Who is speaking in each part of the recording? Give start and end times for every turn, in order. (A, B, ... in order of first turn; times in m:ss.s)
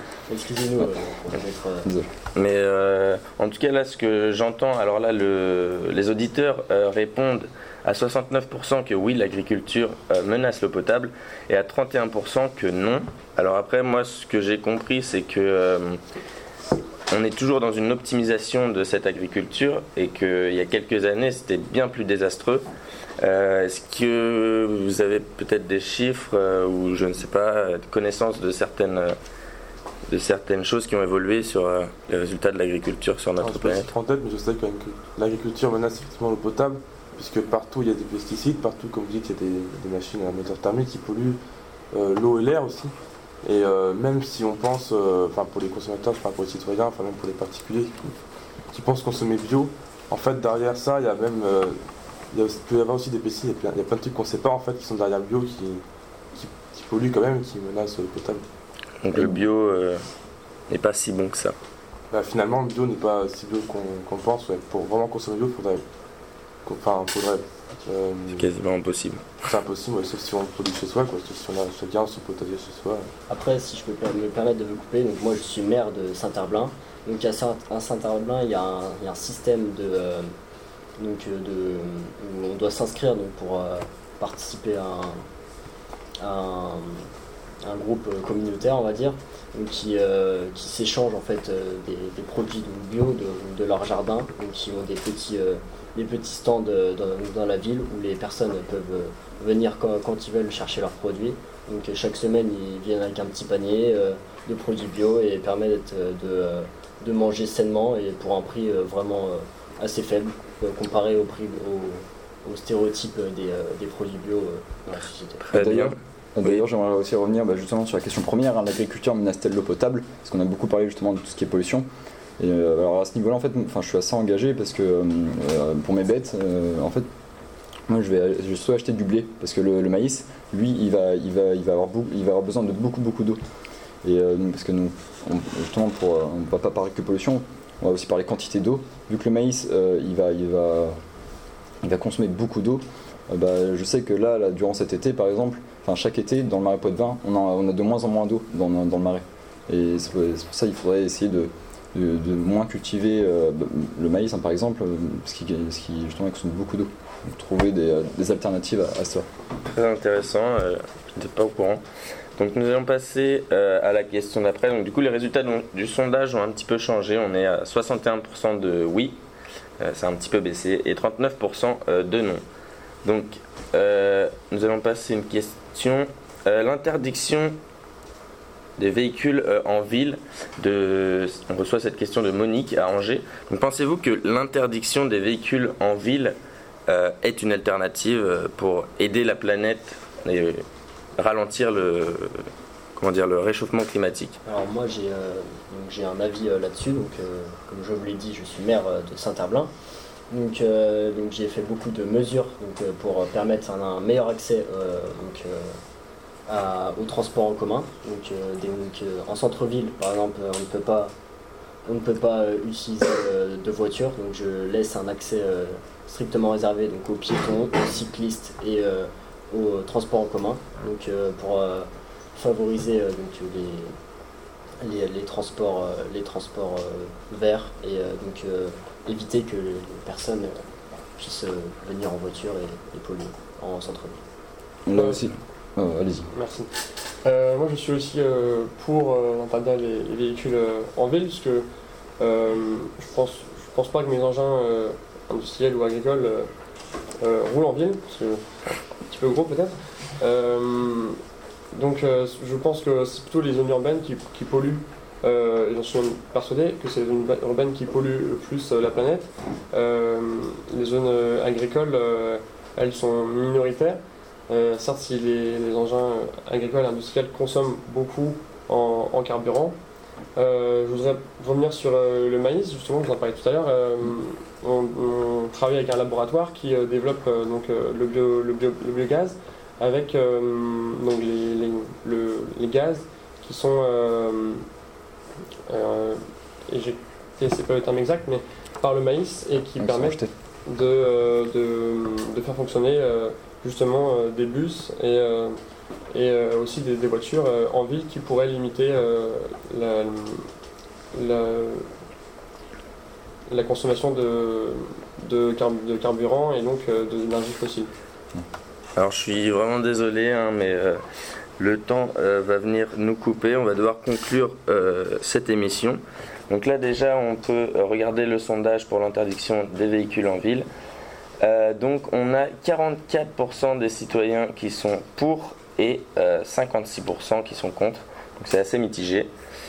0:00.3-0:01.9 A
0:02.4-0:16.0 B
0:17.1-0:22.6 B
0:23.2-0:29.1 B
0:30.1-0:33.9 B
0:33.4-0:41.4 C
0:41.9-0:48.1 C
0:48.7-0:51.8 C
0:52.3-0:55.8 C
0:56.4-0:58.4 C
0:59.0-1:00.0 B
0:59.1-0:59.4 D
1:00.7-1:01.5 B
1:02.1-1:05.8 C
1:06.6-1:08.5 C
1:08.3-1:09.4 B
1:09.4-1:13.1 C
1:13.3-1:20.3 A
1:21.0-1:25.2 A
1:26.2-1:27.0 A
1:27.6-1:55.5 A
1:55.5-1:56.6 B
1:55.5-2:01.9 D
2:02.4-2:07.1 D
2:07.9-2:13.4 D
2:14.0-2:21.0 D
2:21.8-2:39.2 D
2:39.6-2:41.8 B
2:42.4-2:49.2 B
2:49.8-2:52.4 B
2:53.0-2:57.6 B
2:58.8-3:06.4 B
3:06.9-3:10.6 B
3:11.2-3:12.4 B
3:13.0-3:14.4 B
3:14.4-3:19.7 A
3:20.3-3:25.8 A
3:26.5-3:31.1 A
3:31.9-3:43.9 A
3:44.8-3:50.6 A
3:51.2-3:54.2 A
3:54.9-3:56.3 D
3:54.9-3:55.2 E
3:56.3-3:56.7 E
3:57.2-4:01.7 E
4:02.2-4:06.5 E
4:07.2-4:11.2 E
4:11.7-4:29.7 E
4:30.4-4:44.6 E
4:45.7-4:55.6 E
4:49.8-4:50.3 D
4:56.1-5:00.5 E
5:01.1-5:01.9 E
5:03.5-5:07.9 E
5:09.0-5:11.0 B
5:11.6-5:20.6 B
5:21.4-5:29.3 B